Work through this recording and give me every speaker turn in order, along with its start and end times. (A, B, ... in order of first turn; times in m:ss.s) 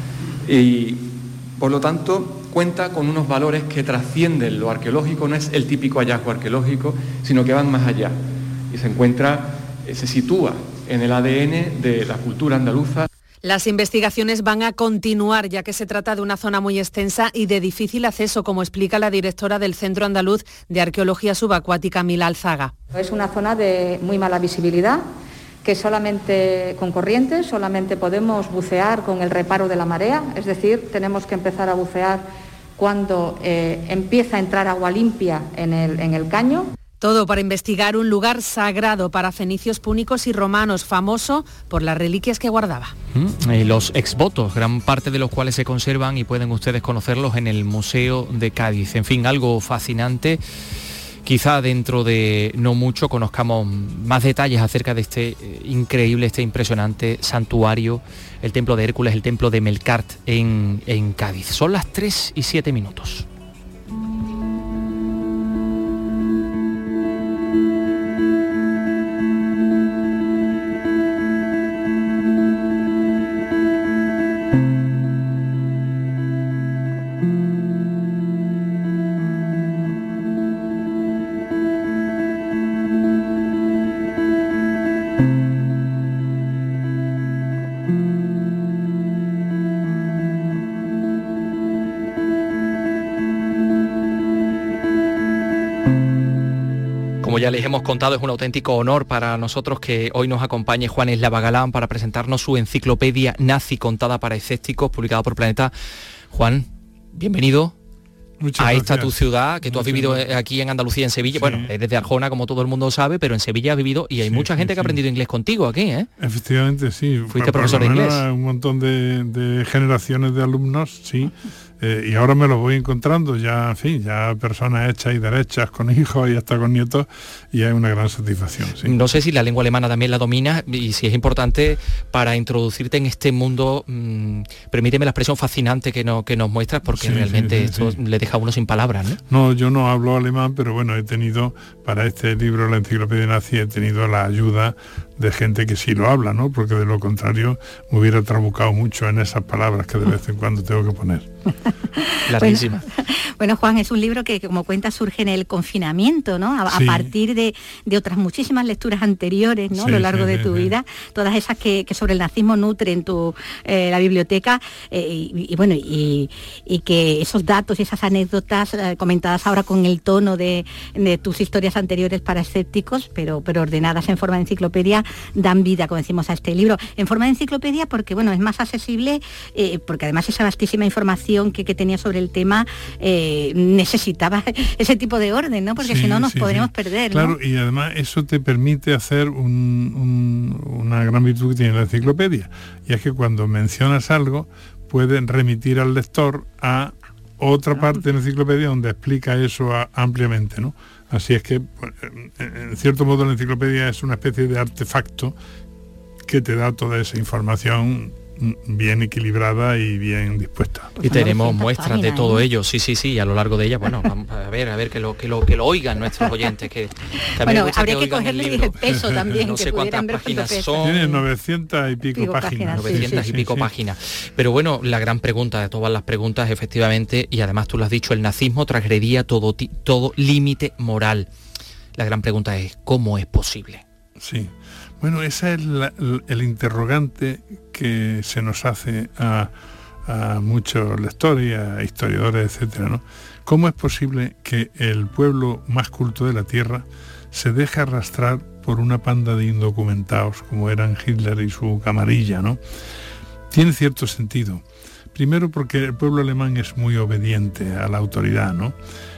0:00.4-0:08.2 A
0:08.7-0:13.1 A
0:13.4-0:22.7 B
0:22.9-0:25.0 C
0:25.6-0:36.7 C
0:37.0-0:42.9 B
0:43.1-0:50.4 D
0:51.2-1:03.3 D
1:37.2-1:45.7 D
1:46.3-1:47.8 D
1:48.4-1:49.1 E
1:48.6-1:56.1 D
1:49.6-1:50.4 E
1:51.3-1:51.7 E
1:54.2-1:55.0 E
1:56.2-2:09.0 E
1:57.3-1:58.2 D
2:08.8-2:19.2 D
2:16.9-2:18.0 E
2:19.3-2:31.3 E
2:32.0-3:07.4 F
2:32.3-2:32.8 D
2:36.7-2:37.1 E
2:39.7-2:40.7 E
3:05.8-3:25.4 E
3:26.3-3:30.9 E
3:31.0-3:32.5 F
3:31.0-3:41.0 D
3:37.4-3:41.2 F
3:38.9-3:39.4 E
3:40.8-3:43.7 E
3:42.1-3:43.3 F
3:42.7-3:51.3 D
3:52.0-3:53.8 D
3:54.2-3:59.5 E
4:00.1-4:12.6 E
4:13.5-4:18.8 E